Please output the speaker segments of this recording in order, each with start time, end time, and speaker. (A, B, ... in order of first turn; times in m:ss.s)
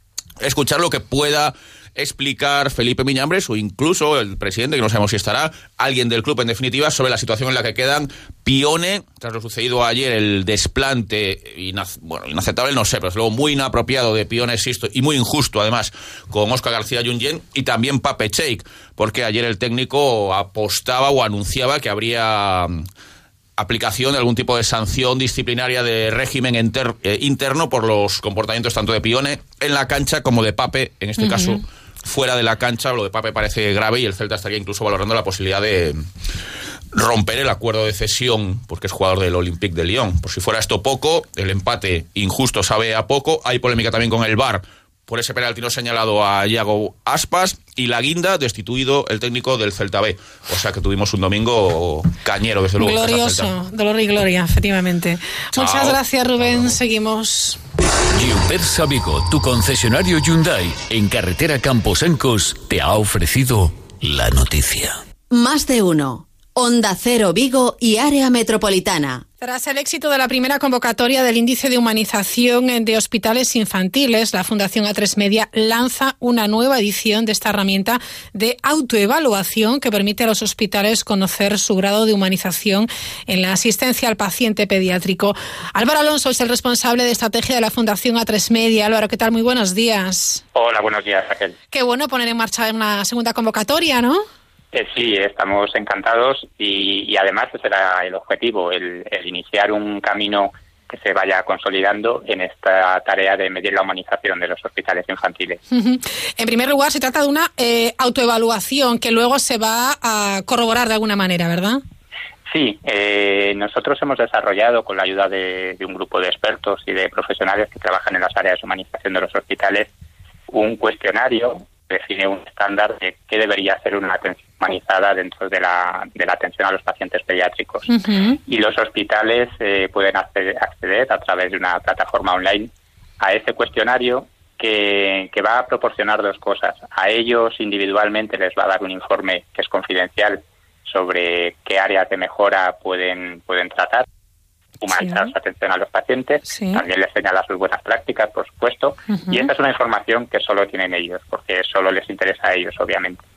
0:00.4-0:22.8 A
0:23.6-0:36.0 A
0:31.2-0:31.6 B
0:36.9-0:53.5 A
0:52.8-0:57.6 B
0:55.6-0:56.0 A
0:58.1-1:05.0 C
1:05.3-1:09.2 D
1:09.4-1:30.4 B
1:30.5-1:31.5 E
1:31.7-1:34.2 B
1:34.7-1:45.6 E
1:45.7-1:51.8 B
1:52.5-1:59.9 E
2:00.5-2:07.9 E
2:07.9-2:08.4 B
2:08.5-2:24.0 E
2:24.8-2:33.2 E
2:25.0-2:25.2 B
2:26.4-2:26.8 B
2:29.1-2:29.5 B